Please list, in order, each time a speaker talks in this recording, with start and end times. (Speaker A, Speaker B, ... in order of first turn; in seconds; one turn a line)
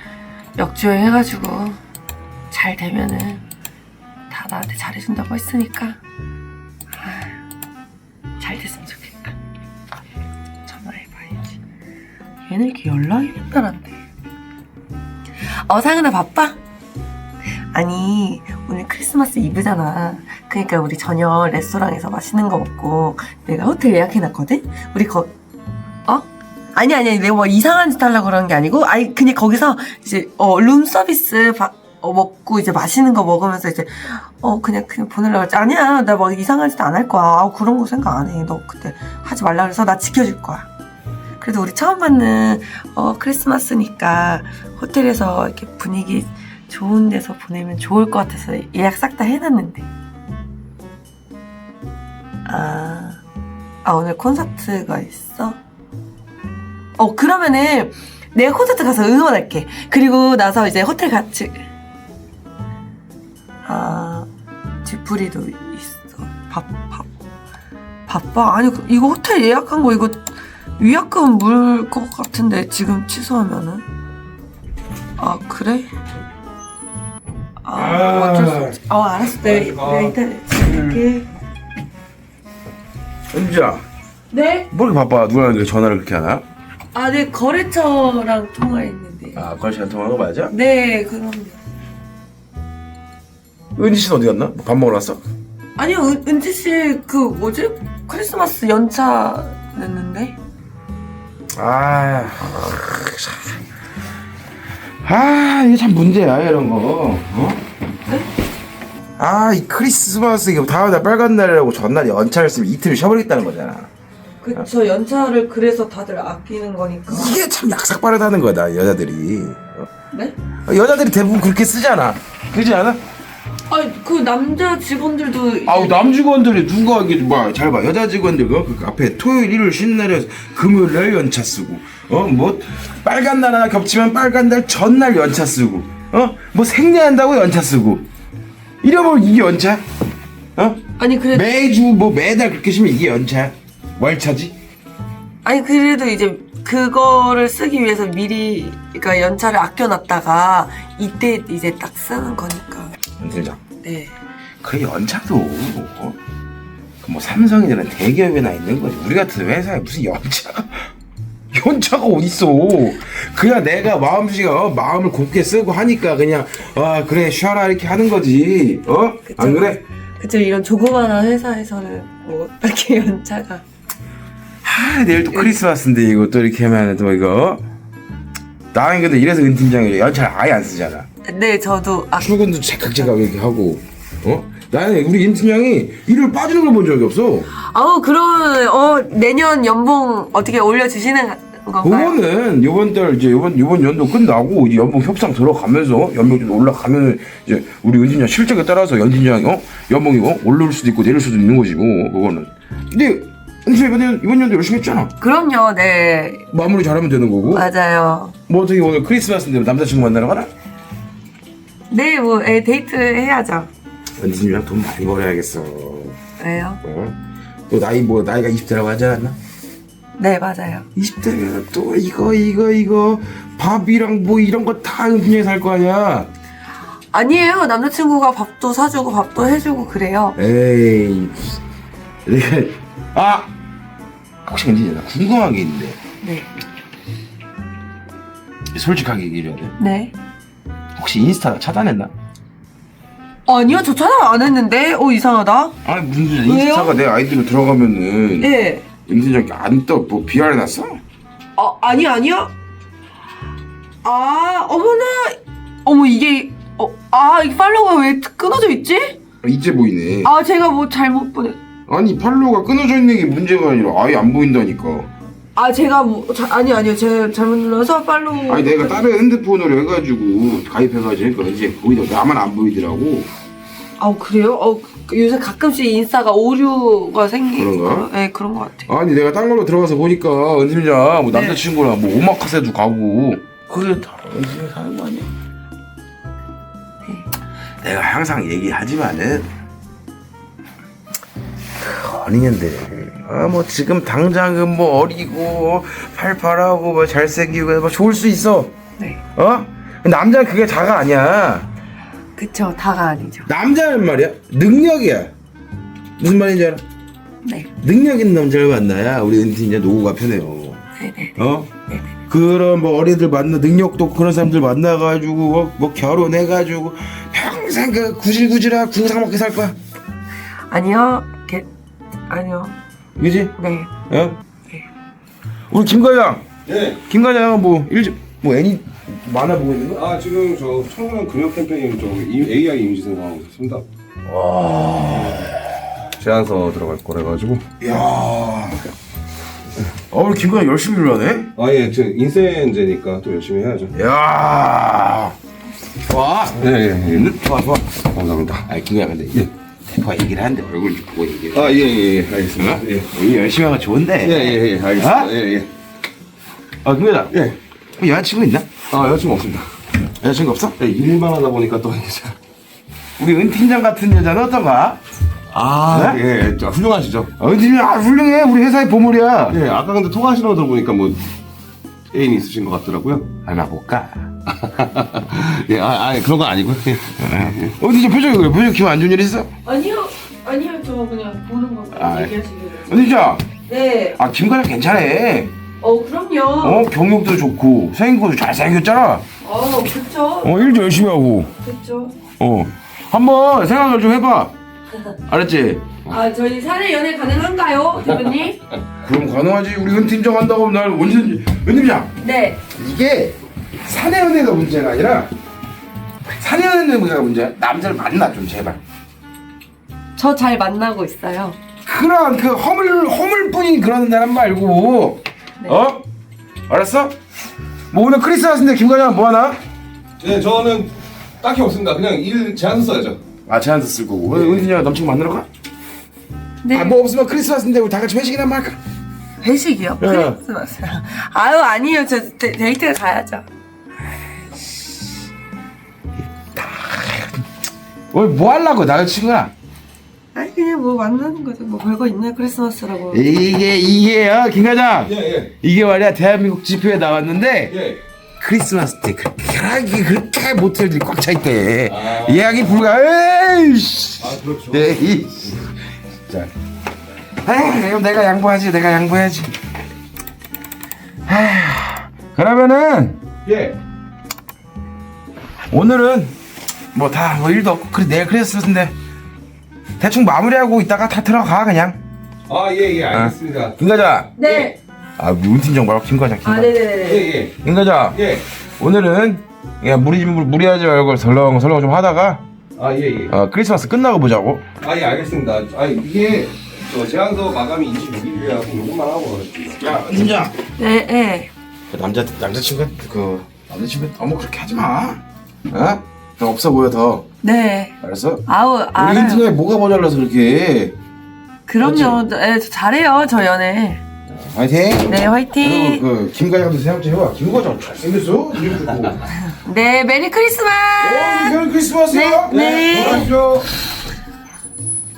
Speaker A: 0.6-1.8
Speaker A: 2.5-3.4
Speaker A: 4.3-6.0
Speaker A: 6.9-7.4
Speaker A: 8.4-9.3
Speaker A: 10.6-11.6
Speaker A: 12.5-14.0
Speaker A: 15.4-16.6
Speaker A: 17.7-25.3
Speaker A: 26.1-40.7
Speaker A: 41.4-49.9
Speaker A: 52.4-53.2
Speaker A: 53.8-55.6
Speaker A: 57.0-61.6
Speaker A: 63.6-64.3
Speaker A: 64.8-67.1
Speaker A: 68.1-70.2
Speaker A: 70.8-73.8
Speaker A: 75.2-75.9
Speaker A: 77.6-81.3
Speaker B: 77.7-78.8
Speaker C: 79.3-80.1
Speaker B: 83.3-83.8
Speaker A: 84.3-84.7
Speaker B: 84.7-86.4
Speaker A: 86.9-89.4
Speaker B: 89.3-90.5
Speaker A: 90.5-91.6
Speaker B: 93.8-95.2
Speaker A: 95.8-100.4
Speaker B: 101.5-103.5
Speaker B: 105.0-107.6
Speaker B: 109.2-113.9
Speaker A: 114.4-117.4
Speaker B: 117.1-119.9
Speaker B: 120.7-123.0
Speaker A: 123.7-126.2
Speaker B: 125.7-138.0
Speaker B: 138.8-139.8
Speaker B: 140.6-144.5
Speaker A: 141.0-141.5
Speaker A: 145.4-152.9
Speaker B: 153.2-153.6
Speaker A: 153.8-154.1
Speaker B: 154.6-156.2
Speaker B: 157.0-160.9
Speaker B: 161.5-169.8
Speaker A: 169.3-173.6
Speaker B: 174.6-177.6
Speaker A: 175.3-175.6
Speaker B: 178.7-181.1
Speaker A: 181.2-182.4
Speaker B: 182.2-187.5
Speaker A: 187.5-192.2
Speaker B: 191.8-205.1
Speaker A: 205.2-206.5
Speaker B: 206.5-207.6
Speaker A: 207.5-208.3
Speaker B: 208.5-210.5
Speaker A: 211.9-213.7
Speaker B: 214.2-216.2
Speaker A: 216.4-216.8
Speaker B: 216.8-217.2
Speaker B: 217.7-219.4
Speaker A: 220.2-220.8
Speaker B: 220.9-226.3
Speaker A: 227.1-230.4
Speaker B: 230.4-231.6
Speaker B: 232.2-233.5
Speaker B: 234.4-236.0
Speaker A: 236.2-236.5
Speaker B: 238.7-239.7
Speaker A: 239.8-240.1
Speaker B: 241.0-242.1
Speaker A: 243.4-245.7
Speaker B: 245.8-248.5
Speaker A: 246.4-247.0
Speaker A: 248.4-248.8
Speaker B: 249.1-251.0
Speaker A: 251.6-252.5
Speaker A: 254.0-259.2
Speaker B: 259.4-260.3
Speaker A: 260.2-261.6
Speaker B: 261.9-265.1
Speaker A: 265.6-269.1
Speaker B: 268.5-273.3
Speaker A: 274.0-278.9
Speaker B: 277.6-278.1
Speaker B: 278.9-285.3
Speaker A: 281.3-281.6
Speaker B: 287.8-289.5
Speaker B: 291.8-298.7
Speaker B: 299.4-301.7
Speaker A: 302.4-303.5
Speaker B: 303.5-305.3
Speaker B: 306.2-306.8
Speaker A: 307.4-307.7
Speaker B: 307.8-310.8
Speaker A: 311.0-311.4
Speaker B: 311.4-311.7
Speaker B: 312.3-319.7
Speaker A: 320.7-321.7
Speaker A: 322.3-322.8
Speaker B: 323.2-323.5
Speaker A: 323.6-323.9
Speaker B: 324.1-324.4
Speaker B: 325.7-326.4
Speaker C: 326.7-327.0
Speaker B: 327.1-330.0
Speaker C: 329.9-333.8
Speaker B: 334.2-335.7
Speaker C: 335.2-335.4
Speaker C: 336.2-337.6
Speaker B: 337.8-338.9
Speaker B: 340.1-341.5
Speaker C: 341.6-343.9
Speaker B: 343.9-345.3
Speaker B: 346.1-347.9
Speaker C: 346.6-347.4
Speaker C: 348.0-348.7
Speaker B: 348.7-355.3
Speaker C: 351.5-353.1
Speaker C: 354.2-355.7
Speaker B: 356.8-357.3
Speaker C: 357.3-357.6
Speaker B: 358.0-358.7
Speaker C: 358.9-359.6
Speaker B: 360.2-360.8
Speaker C: 360.8-362.4
Speaker B: 363.2-365.0
Speaker C: 365.5-367.3
Speaker B: 365.9-366.2
Speaker B: 367.4-369.6
Speaker C: 369.5-371.2
Speaker C: 372.1-373.3
Speaker B: 373.4-374.3
Speaker C: 374.6-377.7
Speaker B: 377.2-379.5
Speaker A: 379.6-383.1
Speaker B: 381.9-383.4
Speaker A: 383.7-384.2
Speaker B: 384.1-385.5
Speaker A: 385.8-386.9
Speaker B: 386.6-389.2
Speaker A: 389.4-391.0
Speaker B: 390.4-391.5
Speaker A: 391.6-392.1
Speaker B: 392.4-394.5
Speaker B: 395.3-395.9
Speaker A: 396.1-398.6
Speaker B: 399.0-402.1
Speaker A: 402.2-402.6
Speaker B: 402.7-405.3
Speaker B: 406.3-408.8
Speaker A: 410.1-411.6
Speaker B: 411.8-416.0
Speaker B: 416.7-417.1
Speaker B: 417.9-419.6
Speaker C: 420.2-423.2
Speaker B: 423.5-425.5
Speaker C: 424.3-424.7
Speaker A: 426.6-426.9
Speaker B: 426.7-428.8
Speaker A: 429.4-433.4
Speaker B: 430.0-430.4
Speaker B: 436.6-437.4
Speaker B: 438.1-439.5
Speaker A: 440.3-443.2
Speaker B: 443.1-447.7
Speaker C: 445.0-445.5
Speaker C: 447.7-448.0
Speaker B: 448.4-455.7
Speaker C: 451.9-452.7
Speaker C: 454.2-455.0
Speaker B: 457.4-459.5
Speaker B: 461.3-463.2
Speaker C: 463.4-463.8
Speaker B: 465.7-466.3
Speaker B: 466.9-468.9
Speaker B: 470.0-472.0
Speaker C: 472.5-473.8
Speaker B: 473.1-474.4
Speaker A: 474.4-474.8
Speaker C: 474.4-474.7
Speaker B: 475.2-476.8
Speaker A: 476.4-477.3
Speaker C: 477.0-477.6
Speaker B: 477.6-478.2
Speaker C: 478.1-478.4
Speaker B: 478.8-482.4
Speaker C: 482.8-483.3
Speaker B: 483.3-484.6
Speaker C: 484.8-490.1
Speaker B: 489.8-490.6
Speaker A: 490.8-491.5
Speaker B: 491.9-497.2
Speaker A: 497.4-497.9
Speaker B: 498.0-498.4
Speaker A: 498.4-499.5
Speaker B: 498.9-500.9
Speaker A: 501.7-504.0
Speaker B: 501.8-502.2
Speaker B: 504.3-509.2
Speaker A: 505.0-506.0
Speaker A: 509.4-513.3
Speaker B: 511.0-513.3
Speaker C: 512.5-513.7